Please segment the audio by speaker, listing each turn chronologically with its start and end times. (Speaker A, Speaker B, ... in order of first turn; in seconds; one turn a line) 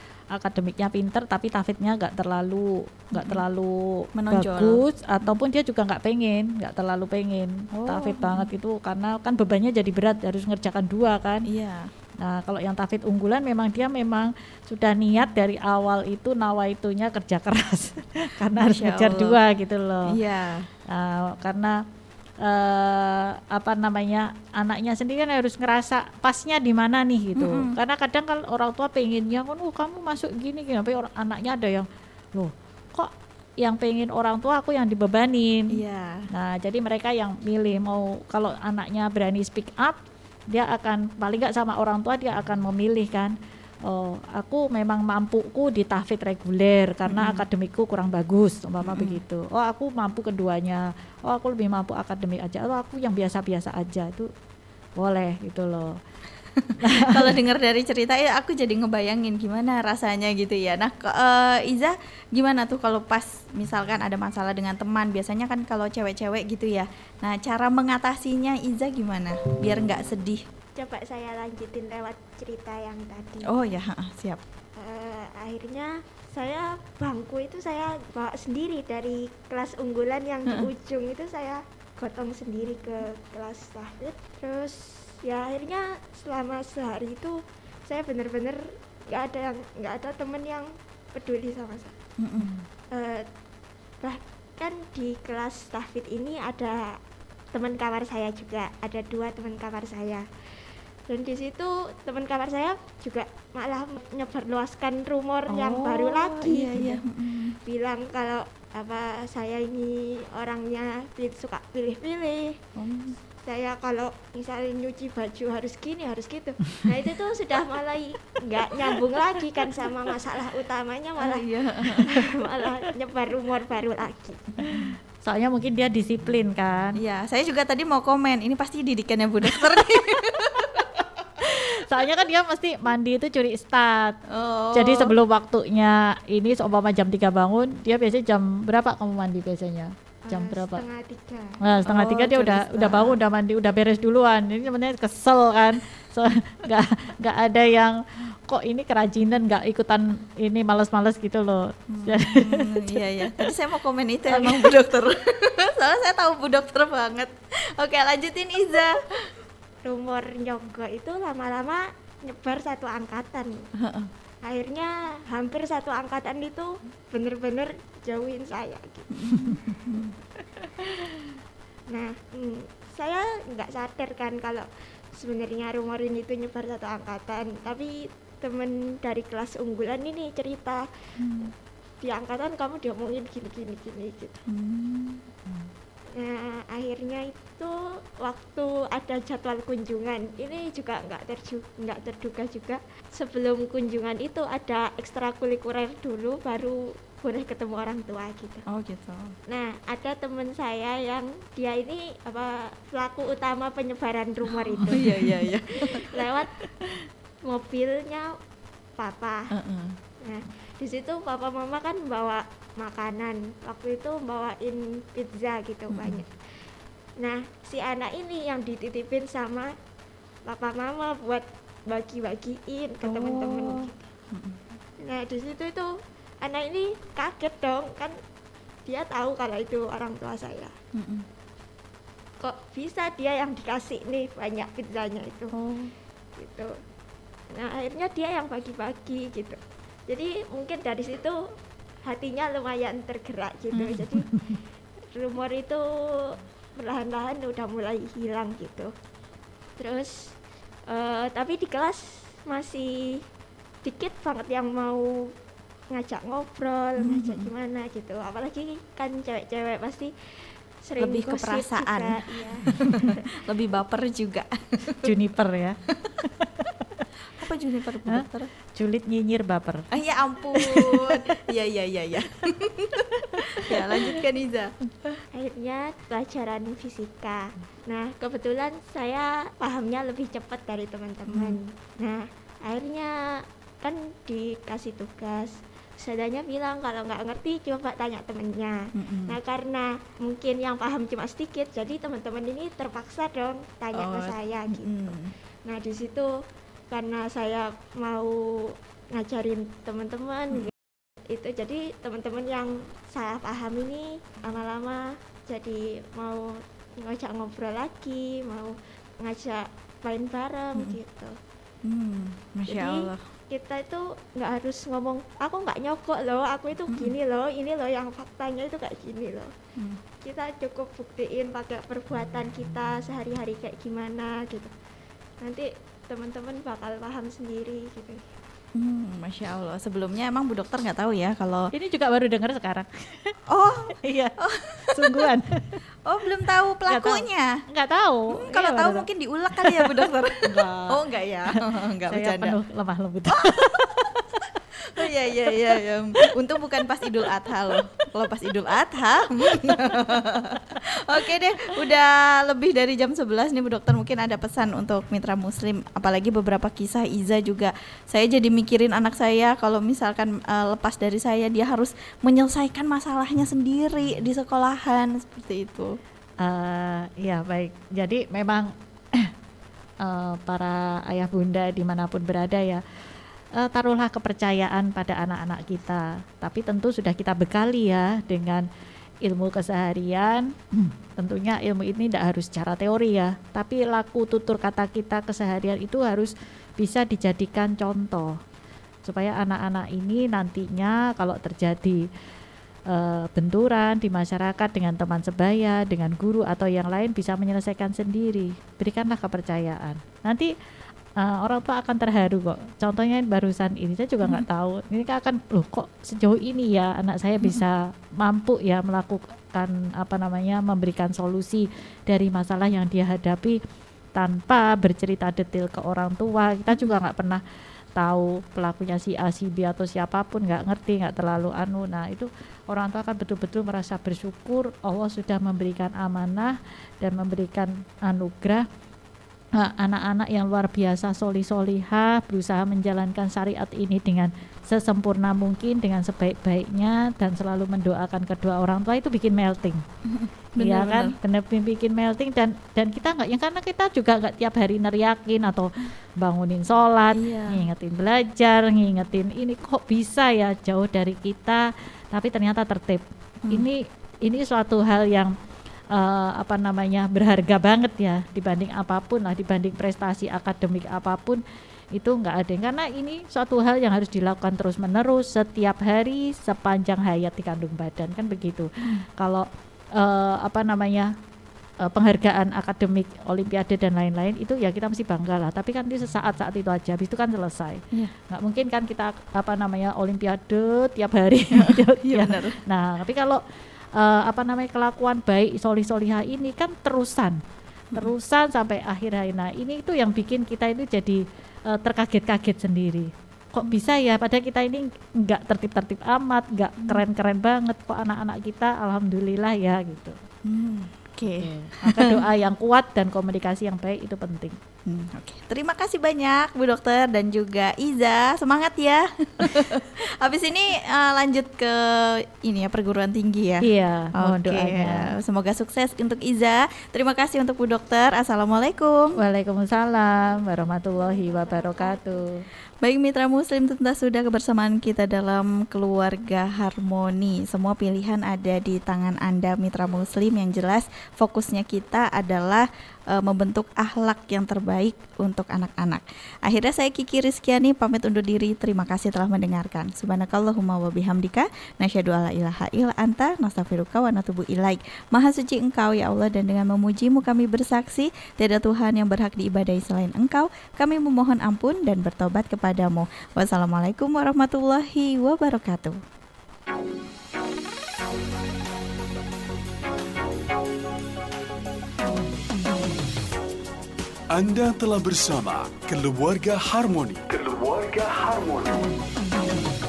Speaker A: 0.3-11.5
Speaker B: 3.1-3.4
Speaker B: 4.1-5.3
Speaker B: 7.8-8.5
Speaker B: 11.5-11.9
Speaker A: 12.2-20.1
Speaker B: 18.5-19.4
Speaker B: 20.1-20.7
Speaker A: 20.9-21.8
Speaker A: 22.4-35.8
Speaker B: 27.4-27.8
Speaker B: 35.7-36.3
Speaker A: 36.3-54.3
Speaker B: 47.1-47.4
Speaker B: 48.8-49.2
Speaker A: 55.0-56.0
Speaker B: 56.5-70.4
Speaker A: 56.8-57.3
Speaker C: 70.8-73.5
Speaker B: 73.4-74.4
Speaker C: 74.8-92.0
Speaker B: 92.2-92.6
Speaker C: 92.9-93.3
Speaker C: 94.0-97.0
Speaker C: 97.5-100.3
Speaker C: 101.1-107.0
Speaker B: 105.5-107.6
Speaker C: 107.6-112.6
Speaker B: 112.8-113.2
Speaker C: 113.4-124.4
Speaker B: 121.2-122.7
Speaker A: 124.7-127.0
Speaker B: 127.0-131.5
Speaker A: 130.6-130.9
Speaker A: 131.4-134.2
Speaker B: 134.3-135.2
Speaker A: 134.7-140.8
Speaker C: 140.3-141.6
Speaker A: 141.6-153.4
Speaker B: 141.8-143.2
Speaker B: 151.9-159.3
Speaker A: 154.3-154.7
Speaker C: 159.8-163.7
Speaker B: 163.8-164.1
Speaker C: 164.4-169.1
Speaker B: 169.1-170.1
Speaker A: 169.3-169.6
Speaker C: 171.9-180.9
Speaker B: 181.2-181.5
Speaker C: 182.0-184.4
Speaker B: 184.5-185.7
Speaker C: 186.1-198.7
Speaker B: 198.7-199.3
Speaker C: 199.5-206.5
Speaker B: 204.5-206.9
Speaker C: 207.4-208.3
Speaker C: 209.0-209.5
Speaker B: 209.5-209.9
Speaker C: 210.2-216.3
Speaker B: 215.9-216.2
Speaker C: 217.2-219.7
Speaker C: 220.4-224.1
Speaker B: 223.0-224.6
Speaker C: 225.0-228.2
Speaker C: 228.8-230.7
Speaker B: 230.9-231.3
Speaker C: 232.4-235.5
Speaker B: 235.5-235.9
Speaker C: 236.4-236.8
Speaker C: 237.5-241.4
Speaker C: 242.0-244.4
Speaker B: 243.7-244.0
Speaker A: 244.2-244.5
Speaker C: 245.1-248.9
Speaker C: 249.8-250.3
Speaker C: 250.9-253.2
Speaker C: 253.8-255.3
Speaker C: 255.9-260.1
Speaker B: 257.0-257.5
Speaker C: 260.8-263.3
Speaker B: 261.0-265.1
Speaker A: 265.0-267.1
Speaker B: 265.9-266.2
Speaker B: 267.3-268.5
Speaker A: 268.1-269.9
Speaker B: 269.9-275.2
Speaker A: 270.5-271.3
Speaker A: 273.2-274.2
Speaker C: 275.3-295.1
Speaker B: 281.3-281.6
Speaker B: 288.9-289.4
Speaker B: 293.9-295.3
Speaker C: 295.6-296.3
Speaker C: 296.9-300.7
Speaker C: 301.3-311.4
Speaker B: 311.8-313.2
Speaker C: 312.7-319.5
Speaker C: 320.2-324.7
Speaker C: 325.4-328.3
Speaker B: 328.7-331.7
Speaker A: 331.7-333.4
Speaker B: 333.5-335.3
Speaker A: 334.0-334.4
Speaker A: 334.9-335.8
Speaker B: 336.0-337.6
Speaker A: 336.9-339.0
Speaker B: 338.3-342.6
Speaker A: 339.6-341.0
Speaker A: 342.1-344.3
Speaker B: 343.3-344.1
Speaker B: 344.9-365.9
Speaker A: 345.0-345.5
Speaker A: 347.0-347.4
Speaker A: 349.7-350.0
Speaker A: 366.4-369.3
Speaker A: 370.0-372.8
Speaker A: 373.6-378.6
Speaker A: 379.2-388.4
Speaker A: 389.0-392.0
Speaker A: 392.9-400.5
Speaker A: 401.2-413.6
Speaker A: 414.1-417.4
Speaker B: 416.7-417.0
Speaker A: 417.9-428.7
Speaker A: 429.6-439.8
Speaker B: 440.0-441.1
Speaker A: 440.6-455.3
Speaker B: 447.1-447.6
Speaker A: 455.9-461.4
Speaker A: 461.9-471.1
Speaker A: 471.8-483.4
Speaker B: 481.5-482.6
Speaker A: 483.9-487.4
Speaker A: 487.9-500.2
Speaker B: 500.4-502.2
Speaker A: 501.8-504.6
Speaker B: 504.9-519.2
Speaker A: 513.6-515.1
Speaker A: 519.1-522.4
Speaker C: 521.0-522.2
Speaker B: 522.8-556.0
Speaker D: 564.3-568.9